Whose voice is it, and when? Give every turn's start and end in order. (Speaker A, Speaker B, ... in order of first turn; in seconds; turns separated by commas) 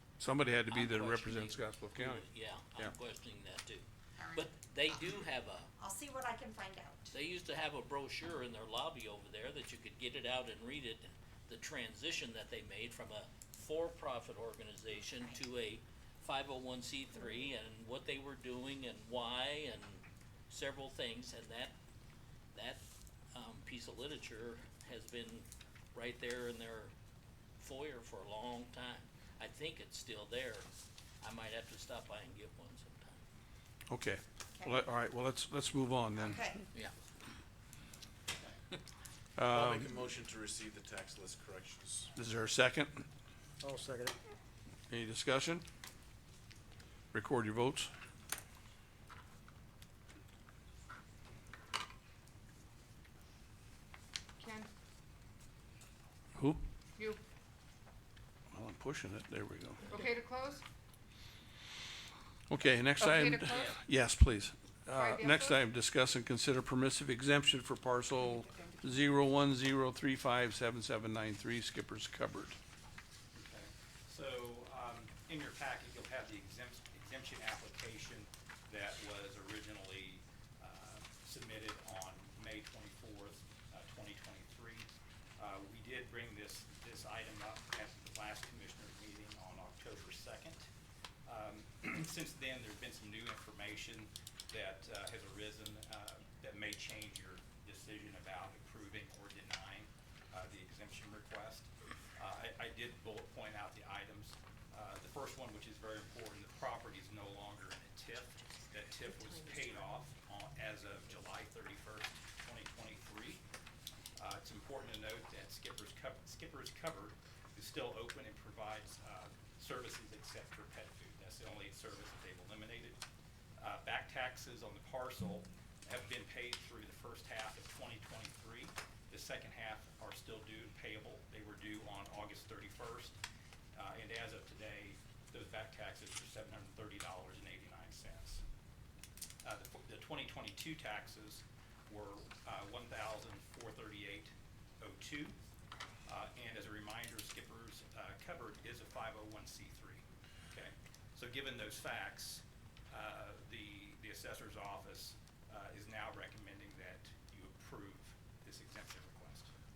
Speaker A: 0.2-2.9, Speaker B: 0.7-5.7, Speaker C: 4.2-5.0, Speaker C: 5.8-7.1, Speaker B: 7.1-21.7, Speaker C: 14.9-15.4, Speaker B: 22.5-22.8, Speaker B: 23.3-26.9, Speaker B: 27.6-30.7, Speaker B: 31.2-33.2, Speaker A: 33.9-36.5, Speaker C: 34.5-34.8, Speaker C: 36.1-36.6, Speaker A: 39.4-40.0, Speaker D: 39.4-42.1, Speaker A: 42.1-43.0, Speaker A: 44.9-45.6, Speaker A: 47.1-47.9, Speaker E: 54.4-54.7, Speaker A: 56.3-56.6, Speaker A: 58.5-59.9, Speaker E: 59.9-60.6, Speaker A: 62.5-72.6, Speaker E: 63.0-63.8, Speaker E: 64.9-65.6, Speaker E: 68.2-69.0, Speaker F: 73.3-90.7, Speaker F: 91.2-113.4, Speaker F: 114.2-123.0, Speaker F: 123.6-133.2, Speaker F: 133.7-138.4, Speaker F: 139.4-145.4, Speaker F: 146.1-159.5